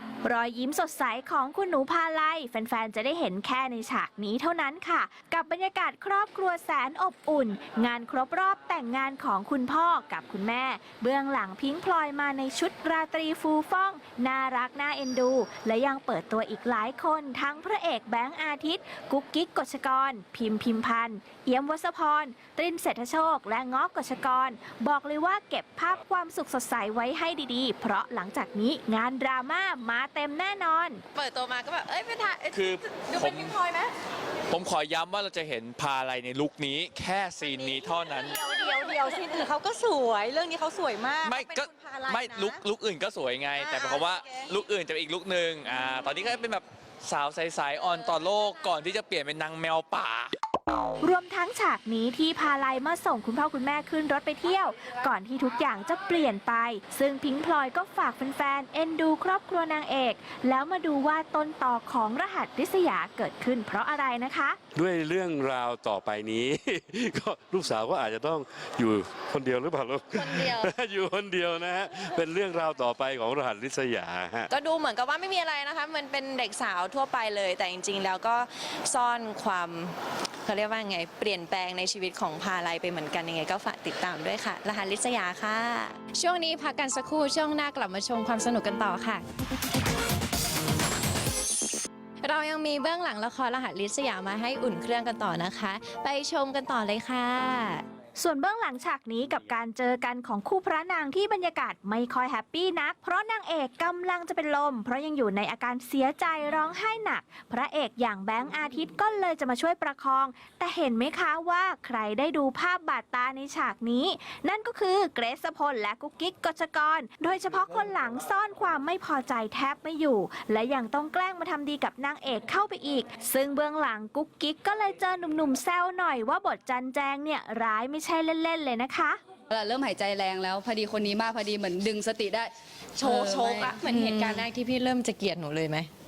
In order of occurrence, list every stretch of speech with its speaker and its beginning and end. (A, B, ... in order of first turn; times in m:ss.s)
0:00.2-0:31.0 A
0:31.2-0:33.9 B
0:32.5-0:33.6 C
0:34.5-0:38.5 C
0:38.4-0:42.6 D
0:41.2-0:50.3 C
0:43.6-0:44.0 D
0:51.0-1:04.6 A
1:04.8-1:14.5 E
1:10.2-1:10.7 B
1:14.5-1:29.2 B
1:32.2-1:37.8 B
1:38.2-2:09.2 A
2:09.5-2:14.5 F
2:13.0-2:15.9 B